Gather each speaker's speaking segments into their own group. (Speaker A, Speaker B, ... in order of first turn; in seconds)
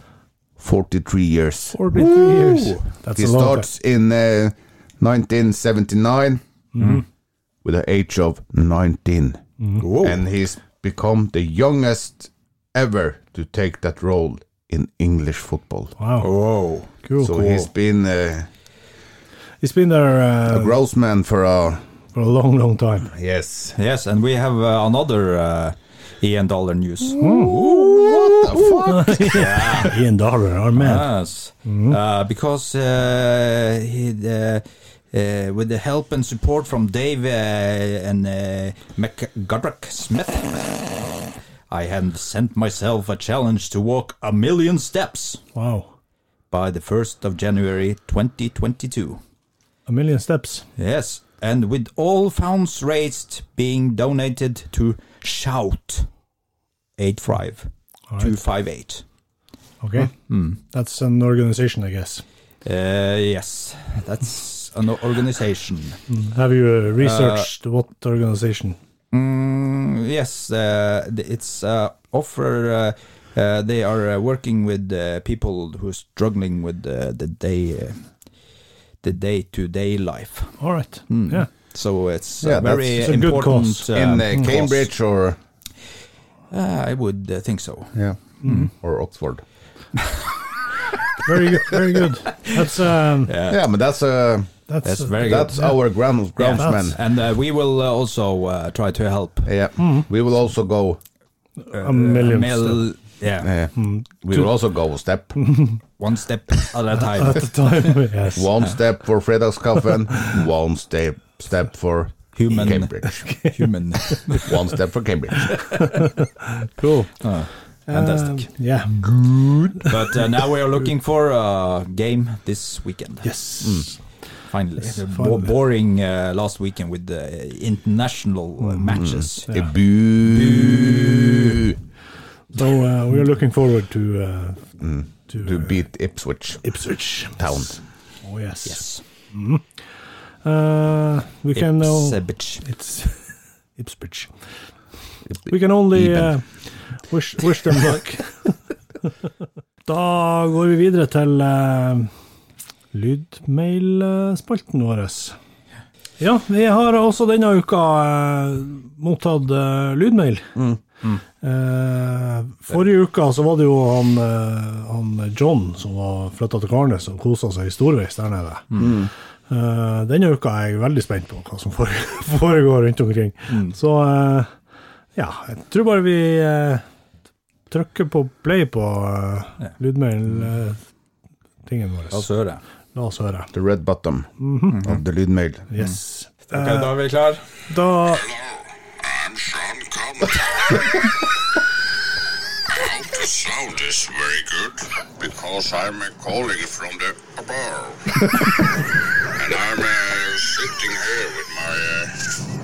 Speaker A: 0.6-1.8, 3.1-6.4, 7.6-9.4, 10.0-15.9, 17.2-18.5, 20.5-21.8, 23.1-23.8, 27.3-29.3, 82.4-83.1, 83.9-85.4, 88.7-89.4, 93.5-94.5, 95.2-97.0, 99.5-101.0, 103.4-105.4, 108.4-113.3, 114.4-115.5, 123.6-123.9, 129.0-131.8, 134.8-136.6, 137.4-137.8, 145.3-146.3, 168.8-169.1, 183.5-185.7
Speaker B: 1.7-3.7, 6.8-7.0, 16.0-16.3, 17.0-17.4, 19.6-20.7, 22.1-23.1, 27.2-27.6, 28.9-31.1, 31.7-32.0, 45.5-45.9, 49.9-50.6, 59.8-60.1, 60.7-62.2, 66.1-68.8, 80.6-81.5, 83.0-84.5, 88.4-88.7, 91.2-93.3, 94.7-95.8, 96.6-96.9, 99.8-100.1, 101.7-102.8, 103.8-104.5, 105.4-105.8, 107.0-108.5, 113.0-114.4, 115.5-117.2, 117.9-120.1, 123.2-124.0, 124.8-125.5, 132.5-134.6, 135.3-135.6, 136.6-137.6, 138.2-139.7, 140.4-143.2, 143.8-144.3, 145.5-146.5, 147.1-148.5, 149.8-152.1, 152.9-155.3, 156.2-160.5, 161.4-168.7, 169.5-174.5, 175.2-176.8, 177.7-180.8, 181.7-182.2, 182.9-183.5, 184.4-184.8, 185.7-187.1, 187.7-188.3
Speaker C: 1.9-2.9, 9.8-10.2, 16.2-17.6, 23.8-30.0, 30.8-40.8, 41.7-45.4, 46.5-49.2, 50.8-56.1, 57.0-59.0, 60.1-60.6, 62.6-66.0, 67.0-67.5, 69.1-78.1, 79.0-84.9, 86.5-87.9, 90.0-90.3, 92.3-92.7, 93.3-93.6, 94.8-95.7, 96.4-99.5, 101.7-103.5, 106.0-108.0, 112.3-113.0, 113.5-114.5, 117.2-118.5, 119.8-123.3, 124.5-129.5, 130.2-131.6, 138.7-139.0, 141.6-142.7, 173.5-173.8, 182.1-182.6, 186.5-187.4
Speaker D: 188.1-191.1, 192.7-202.3